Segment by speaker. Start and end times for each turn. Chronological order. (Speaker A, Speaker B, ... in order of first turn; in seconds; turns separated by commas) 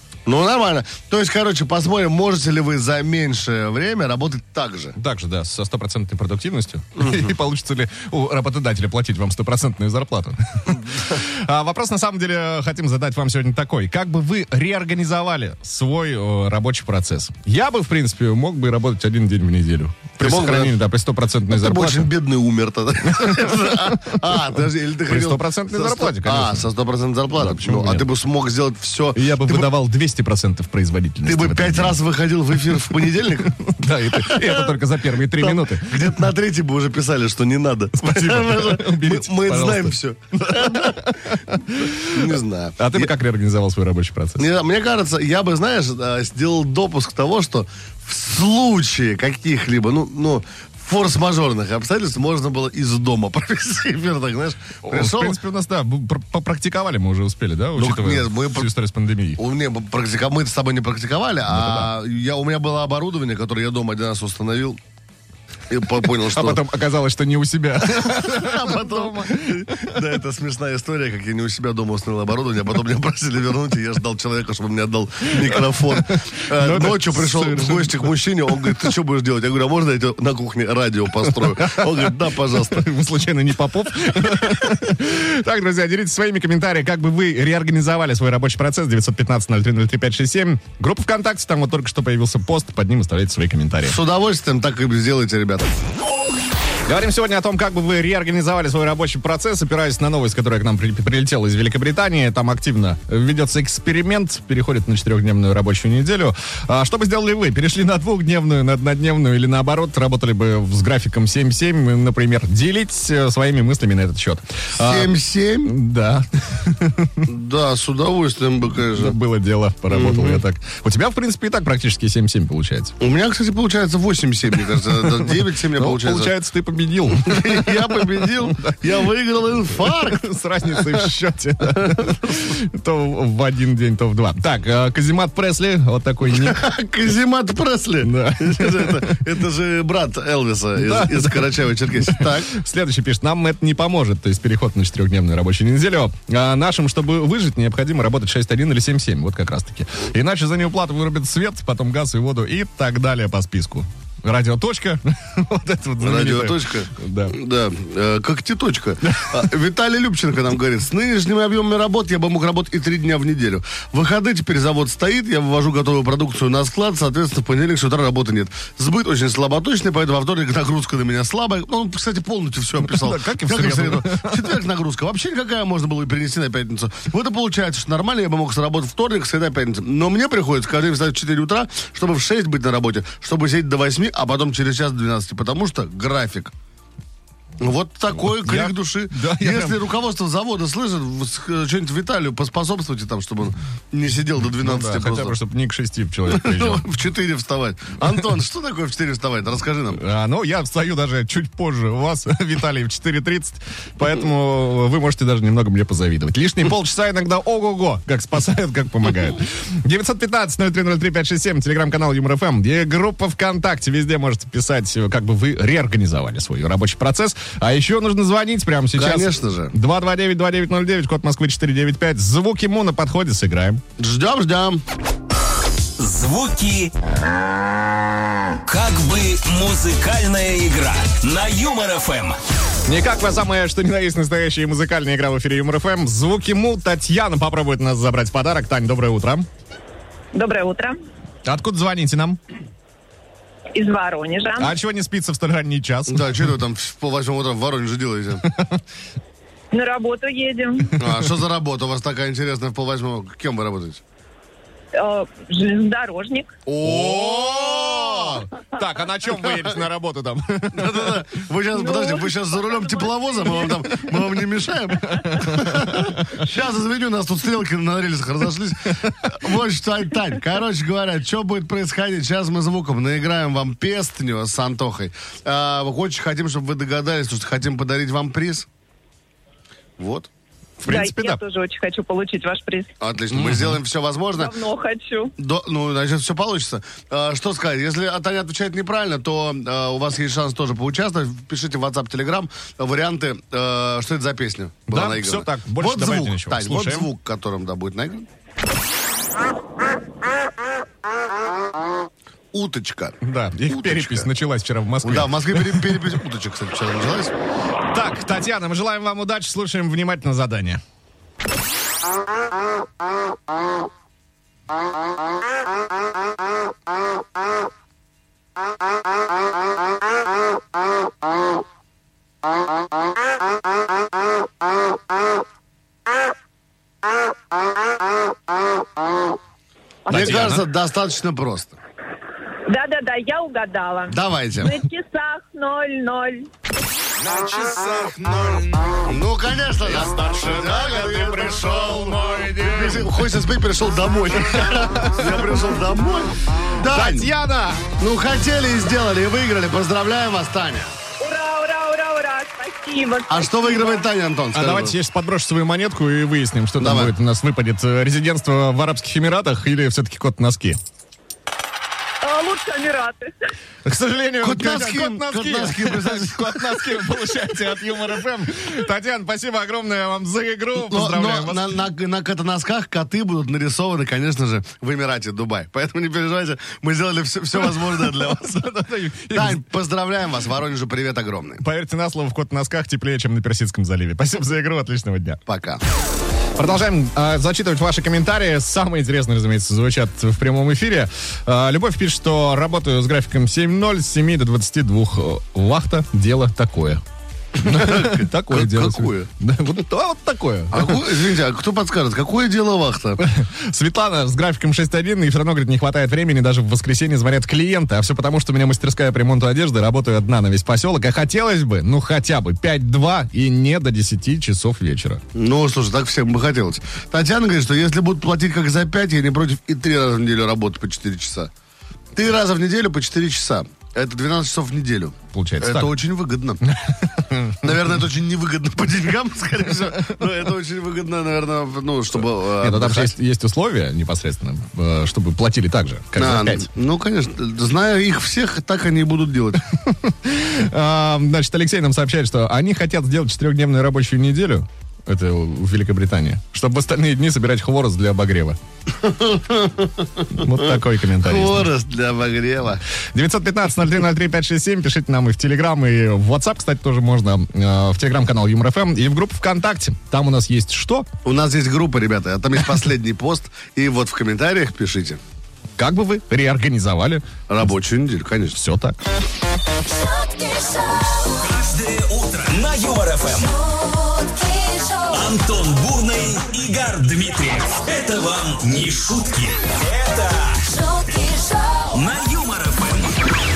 Speaker A: 0.2-5.0, Speaker B: 5.0-22.1, Speaker A: 7.0-7.3, Speaker A: 20.2-20.8, Speaker A: 21.5-29.7, Speaker B: 23.1-24.4, Speaker B: 25.1-26.7, Speaker B: 27.4-28.1, Speaker B: 29.1-32.0, Speaker A: 31.2-33.6, Speaker B: 33.6-36.0, Speaker A: 34.1-41.1, Speaker B: 38.0-44.4, Speaker A: 42.0-43.1, Speaker A: 44.4-55.4, Speaker B: 54.8-59.4, Speaker A: 57.8-58.7, Speaker A: 59.4-64.8, Speaker B: 61.5-61.9, Speaker A: 65.7-66.6, Speaker B: 66.3-70.0, Speaker A: 67.9-82.9, Speaker B: 76.1-78.8, Speaker B: 81.3-94.0, Speaker A: 93.8-95.7, Speaker B: 96.9-115.1, Speaker A: 114.8-115.7, Speaker B: 115.6-117.3, Speaker A: 117.2-119.1, Speaker B: 118.9-122.9, Speaker A: 119.9-120.4, Speaker A: 123.0-126.3, Speaker B: 125.0-128.8, Speaker A: 127.1-131.1, Speaker B: 129.8-136.7, Speaker A: 131.8-132.5, Speaker A: 136.3-142.5, Speaker B: 138.0-139.2, Speaker B: 140.8-157.4, Speaker A: 156.0-186.5, Speaker B: 159.1-159.3, Speaker B: 172.8-174.5, Speaker A: 187.6-195.4, Speaker B: 188.2-189.8, Speaker B: 194.6-196.8, Speaker A: 196.3-200.0, Speaker B: 199.9-223.8, Speaker A: 218.9-219.7, Speaker A: 224.0-224.8, Speaker C: 226.0-226.9, Speaker C: 228.5-232.4, Speaker B: 232.9-239.5, Speaker D: 240.3-241.0, Speaker B: 241.4-242.4, Speaker D: 243.7-244.7, Speaker B: 244.6-246.3, Speaker A: 246.1-248.4, Speaker B: 248.4-248.8, Speaker D: 249.7-250.9, Speaker A: 251.0-254.0, Speaker D: 254.9-256.5, Speaker A: 256.7-258.4, Speaker B: 256.8-261.2, Speaker A: 260.7-278.7, Speaker D: 261.7-263.9, Speaker B: 265.1-266.3, Speaker A: 280.0-280.3, Speaker B: 280.8-281.4, Speaker D: 280.9-282.9, Speaker A: 283.0-284.5, Speaker B: 283.3-283.8, Speaker D: 284.3-285.3, Speaker A: 285.4-298.3, Speaker B: 294.9-297.1, Speaker A: 302.5-304.3, Speaker B: 303.2-306.0, Speaker A: 305.0-307.3, Speaker B: 307.9-310.8, Speaker D: 330.1-330.5, Speaker B: 330.1-330.7, Speaker A: 330.1-331.8, Speaker D: 332.7-336.5, Speaker A: 334.1-334.8, Speaker B: 337.2-339.0, Speaker A: 339.0-347.3, Speaker B: 339.8-343.2, Speaker B: 344.4-345.6, Speaker B: 346.8-347.8, Speaker A: 348.0-350.9, Speaker D: 351.2-354.0, Speaker A: 353.3-354.9, Speaker B: 354.5-360.8, Speaker A: 356.8-357.1, Speaker D: 362.2-363.3, Speaker B: 363.8-371.6, Speaker A: 364.4-367.1, Speaker A: 370.8-378.6, Speaker B: 377.9-379.6, Speaker A: 379.3-381.6, Speaker B: 381.6-385.4, Speaker A: 385.5-385.8, Speaker B: 386.6-397.0, Speaker B: 397.6-401.0, Speaker A: 397.6-399.3, Speaker A: 400.7-403.2, Speaker B: 403.2-415.2, Speaker A: 415.3-421.5, Speaker A: 422.1-426.6, Speaker B: 425.3-425.9, Speaker B: 426.6-427.6, Speaker A: 427.6-433.1, Speaker B: 432.4-436.7, Speaker A: 436.1-439.6, Speaker B: 439.9-448.6, Speaker A: 449.0-452.8, Speaker B: 450.3-451.7, Speaker B: 453.1-461.1, Speaker A: 461.2-465.2, Speaker B: 465.8-467.7, Speaker A: 467.5-468.6, Speaker B: 468.5-469.0, Speaker E: 469.9-471.4, Speaker C: 471.3-473.5, Speaker E: 473.5-475.2, Speaker C: 475.1-480.6, Speaker E: 480.7-481.9, Speaker C: 481.9-483.2